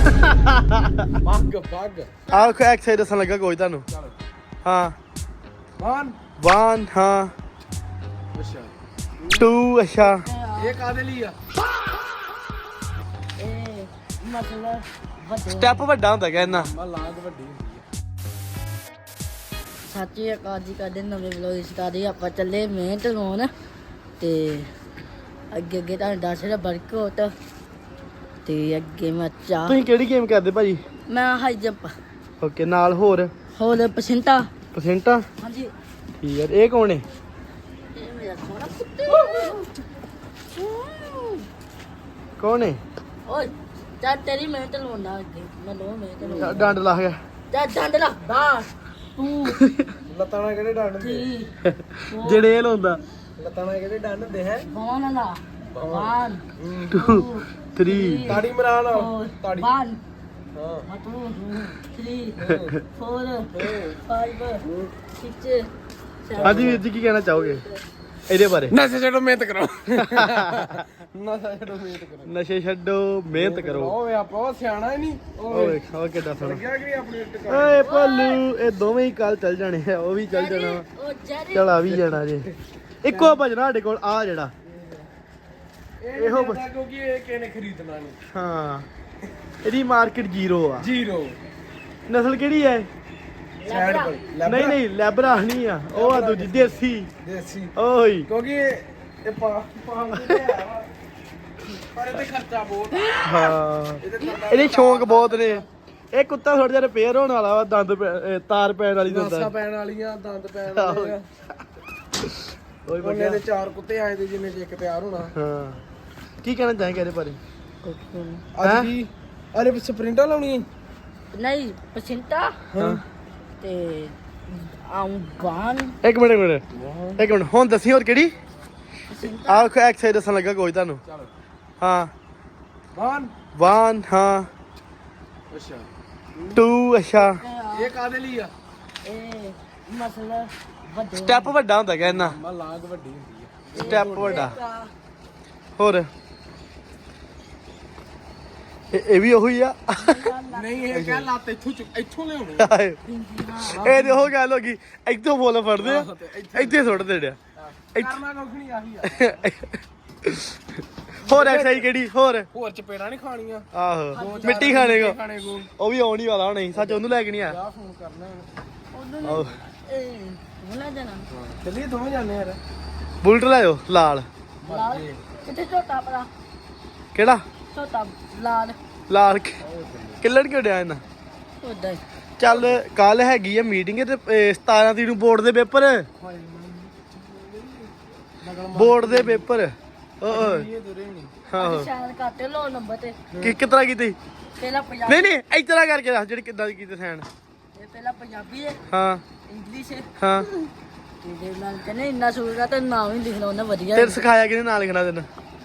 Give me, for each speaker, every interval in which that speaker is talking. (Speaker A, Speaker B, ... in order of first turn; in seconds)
Speaker A: 0.1-1.1, 2.3-3.9, 4.6-5.0, 6.4-7.3, 9.3-10.2, 15.5-16.7, 29.7-30.8, 32.4-33.3, 34.7-35.3, 36.2-37.0, 42.4-42.8, 46.4-47.2, 51.7-53.0, 56.9-58.4, 66.4-67.6, 68.3-68.8, 70.0-70.7, 72.2-74.0, 75.5-76.6, 77.5-80.8, 81.5-82.5, 83.0-84.5, 86.2-86.7, 88.3-88.9, 89.6-90.9, 92.1-92.9, 94.4-97.1, 97.8-98.3, 100.1-100.6, 103.2-109.5, 110.7-111.2, 112.2-113.4, 115.4-115.8, 116.4-117.4, 118.6-118.9, 122.8-123.0, 126.0-126.7, 127.2-128.3, 129.4-131.0, 131.8-132.1, 133.6-134.5, 136.5-137.4, 141.1-142.4, 143.8-144.6, 145.8-146.1, 148.9-150.3, 150.9-151.3, 152.6-153.0, 153.7-157.4, 157.9-158.2, 159.0-162.5, 163.7-167.6, 169.2-169.6, 173.2-174.3, 177.2-177.4, 179.1-179.6, 180.2-181.0, 182.4-186.1, 188.7-190.7, 191.5-191.9, 193.4-194.2, 195.1-197.3, 198.9-199.2, 200.2-200.5, 203.9-205.3
Speaker B: 1.2-2.2, 5.8-6.2, 8.3-9.5, 10.6-11.4, 16.4-17.8, 50.1-51.3, 53.4-54.7, 55.7-57.0, 58.2-59.7, 60.5-60.9, 62.4-62.7, 63.5-64.0, 64.7-64.9, 66.3-66.8, 68.7-72.3, 73.3-75.8, 76.4-77.9, 81.8-82.5, 83.1-83.4, 86.0-88.2, 90.8-91.4, 93.6-94.8, 95.9-97.7, 98.3-100.9, 101.9-105.7, 109.0-111.3, 113.0-115.3, 118.6-120.7, 122.8-123.0, 126.8-127.2, 131.1-131.3, 132.9-133.3, 135.5-136.6, 137.7-138.5, 142.0-144.4, 150.5-152.7, 153.7-154.3, 155.8-156.9, 157.6-159.4, 161.3-161.9, 162.5-165.7, 166.7-168.5, 171.3-172.6, 174.6-175.2, 179.6-180.2, 182.5-182.8, 186.2-189.5, 190.3-191.3, 193.3-193.6
Speaker C: 10.0-10.8, 13.4-15.9, 19.9-23.5, 24.2-24.7, 25.5-27.3, 28.4-29.8, 31.1-31.9, 33.5-34.5, 35.4-35.7, 37.9-39.7, 40.5-41.5, 43.3-46.8, 47.5-49.7, 51.0-51.5, 52.1-52.5, 54.6-60.0, 60.9-64.6, 65.2-65.7, 66.3-66.8, 77.8-78.4, 80.3-81.8, 93.6-94.2, 117.8-118.5, 121.3-122.5, 123.6-126.0, 129.1-129.7, 137.2-138.0, 139.0-141.6, 143.7-144.9, 150.0-151.0, 153.1-153.9, 164.1-165.0, 168.9-171.3, 174.7-176.3, 177.7-178.8, 181.6-182.0, 191.6-193.2, 194.6-195.3, 197.8-198.8, 199.5-200.1, 201.2-204.2